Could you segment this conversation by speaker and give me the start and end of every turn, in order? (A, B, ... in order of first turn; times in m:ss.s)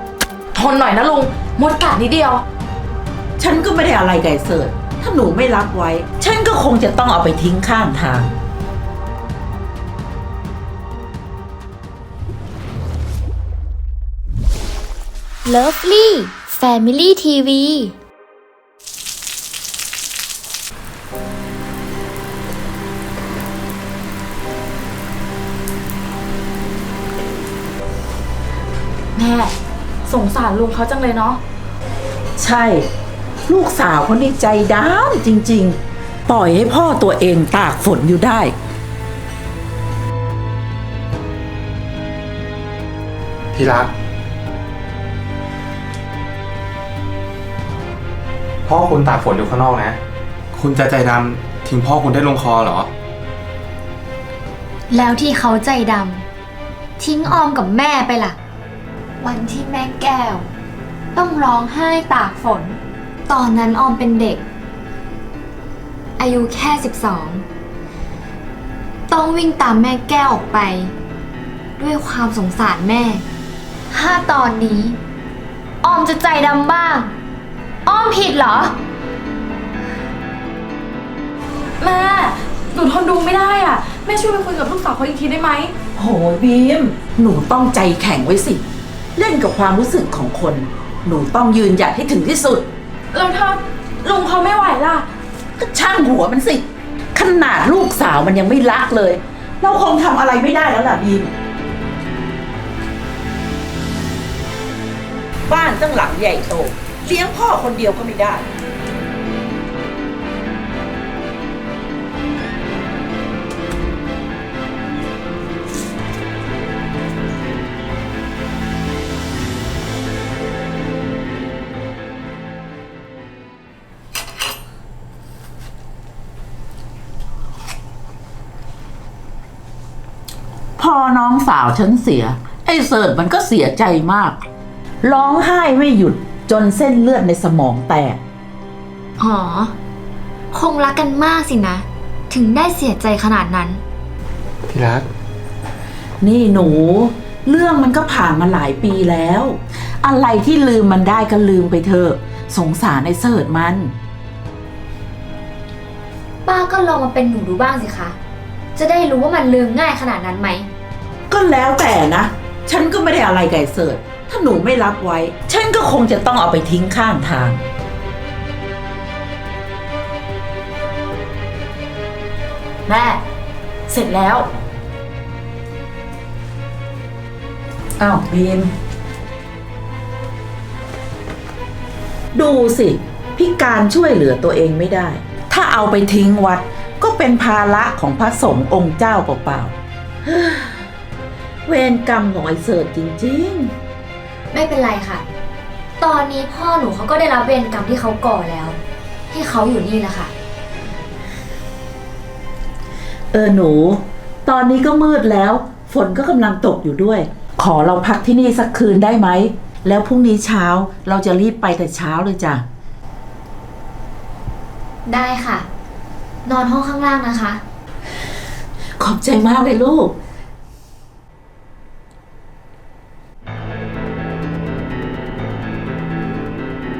0:00.5-0:02.4 A
0:03.4-0:08.4 B
0:15.4-0:18.0 C
0:29.2-0:29.5 A
0:30.1-0:31.4 A
0:32.4-0:32.9 B
0:33.5-0:38.6 B
0:43.5-0:43.9 D
0:48.7-0:50.0 D
0:50.5-0:52.9 D
0:54.9-0:56.2 C
0:57.0-0:58.4 C
0:59.2-1:00.5 C
1:01.2-1:04.4 C
1:06.2-1:07.4 C
1:09.1-1:10.9 C
1:11.8-1:13.2 C
1:13.9-1:15.0 C
1:15.8-1:17.1 C
1:17.9-1:18.8 C
1:21.8-1:25.7 A
1:26.0-1:28.6 B
1:29.2-1:32.7 B
1:33.1-1:35.1 A
1:35.6-1:41.3 B
1:45.5-1:48.5 B
2:10.8-2:14.4 B
2:15.0-2:18.2 B
2:19.2-2:19.8 C
2:20.5-2:23.8 C
2:24.7-2:25.1 D
2:26.2-2:34.0 B
2:36.4-2:38.2 C
2:38.8-2:40.7 C
2:41.3-2:47.6 B
2:52.9-2:53.2 A
2:53.9-2:54.5 A
2:58.0-2:58.7 B
3:02.3-3:10.9 B
3:11.7-3:13.7 B
3:14.5-3:15.2 C
3:16.0-3:18.8 C
3:19.3-3:20.3 C
3:23.3-3:32.6 B
3:35.1-3:35.7 C
3:36.4-3:37.6 C
3:39.0-3:40.1 B